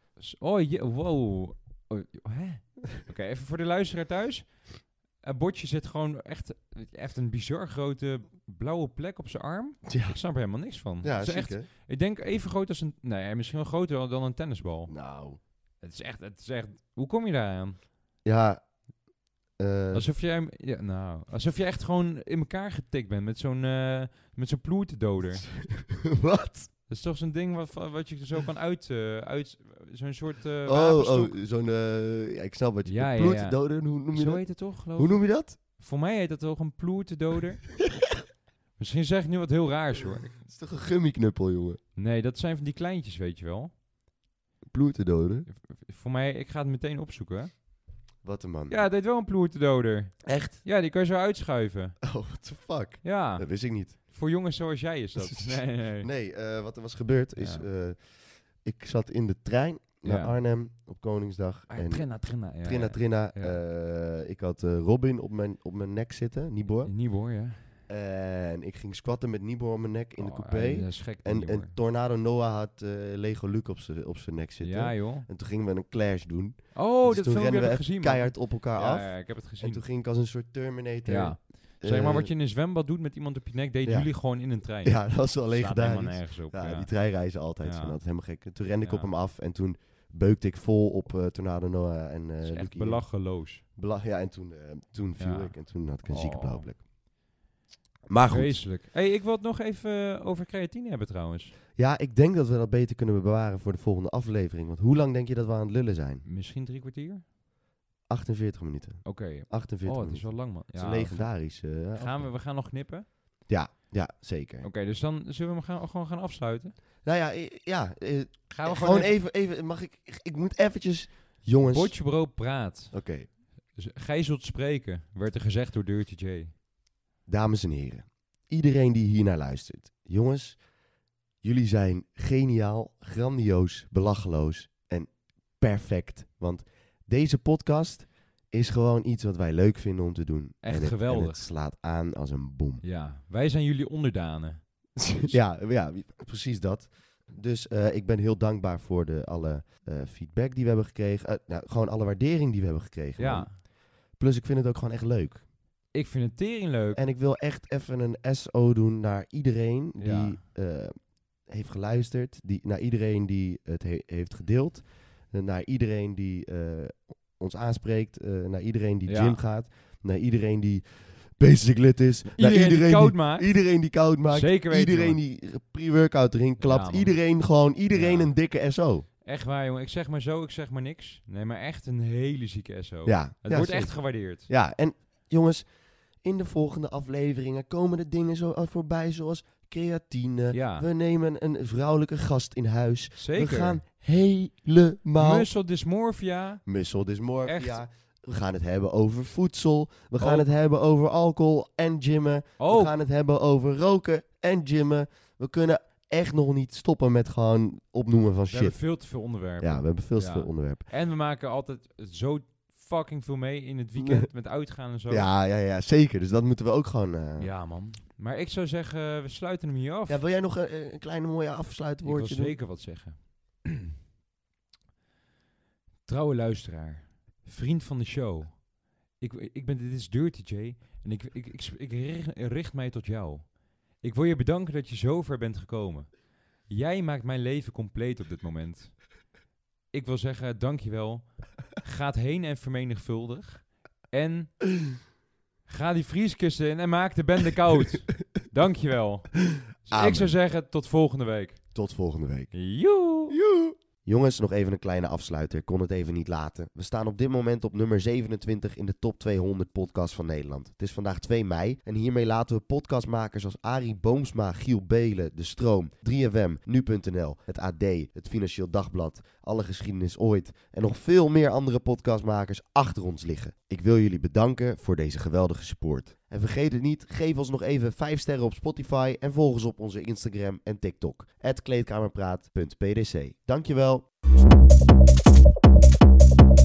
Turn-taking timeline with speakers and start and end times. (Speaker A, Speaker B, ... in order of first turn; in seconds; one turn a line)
Speaker A: 0.1-14.9
Speaker B: 9.9-10.2
Speaker B: 11.0-11.7
Speaker B: 14.9-15.4
Speaker A: 15.8-17.8
Speaker B: 18.2-18.6
Speaker B: 19.6-20.1
Speaker A: 19.9-25.5
Speaker B: 25.7-26.7
Speaker A: 26.9-31.4
Speaker B: 30.6-35.6
Speaker A: 32.9-37.7
Speaker A: 38.8-40.3
Speaker B: 40.4-41.8
Speaker A: 42.0-43.7
Speaker B: 44.7-45.5
Speaker A: 45.5-47.5
Speaker B: 48.2-48.8
Speaker A: 48.7-52.0
Speaker B: 50.2-50.6
Speaker B: 52.0-54.0
Speaker A: 53.0-56.1
Speaker B: 55.2-66.9
Speaker A: 57.4-57.6
Speaker A: 60.0-60.4
Speaker A: 61.7-63.6
Speaker A: 66.8-67.7
Speaker B: 67.9-82.3
Speaker A: 70.2-71.7
Speaker A: 74.6-75.3
Speaker A: 76.7-79.8
Speaker A: 81.0-86.9
Speaker B: 83.8-84.1
Speaker B: 84.8-93.1
Speaker A: 87.6-88.0
Speaker A: 88.8-89.1
Speaker A: 92.4-93.6
Speaker B: 93.8-96.8
Speaker A: 95.2-96.7
Speaker B: 98.1-98.6
Speaker A: 98.3-101.5
Speaker B: 101.8-106.2
Speaker A: 106.2-107.2
Speaker B: 108.1-112.3
Speaker A: 109.0-111.3
Speaker A: 112.0-113.0
Speaker B: 113.5-114.7
Speaker A: 114.6-116.8
Speaker B: 117.0-122.0
Speaker A: 118.5-119.1
Speaker A: 121.6-122.9
Speaker B: 122.9-123.3
Speaker A: 123.7-126.5
Speaker B: 127.3-130.6
Speaker B: 131.4-142.8
Speaker A: 140.6-141.4
Speaker A: 142.8-145.3
Speaker B: 145.1-155.4
Speaker A: 153.2-153.6
Speaker A: 155.9-157.0
Speaker B: 156.9-160.9
Speaker A: 160.0-160.4
Speaker B: 161.4-179.0
Speaker A: 169.1-169.4
Speaker A: 172.3-173.5
Speaker A: 174.3-175.2
Speaker A: 176.6-177.1
Speaker A: 177.9-178.3
Speaker A: 179.2-184.5
Speaker B: 183.1-195.5
Speaker A: 190.5-190.9
Speaker A: 193.2-193.8
Speaker A: 195.2-196.6
Speaker B: 196.7-208.8
Speaker A: 197.4-197.8
Speaker A: 200.2-200.5
Speaker A: 202.6-202.9
Speaker A: 208.5-215.3
Speaker B: 209.6-210.8
Speaker B: 214.0-214.3
Speaker B: 215.1-217.5
Speaker A: 217.4-220.2
Speaker B: 220.1-222.6
Speaker A: 222.0-223.9
Speaker A: 226.1-239.0
Speaker A: 239.9-244.7
Speaker A: 245.7-251.6
Speaker B: 249.8-250.3
Speaker B: 251.7-252.5
Speaker A: 252.5-253.4
Speaker B: 253.3-284.1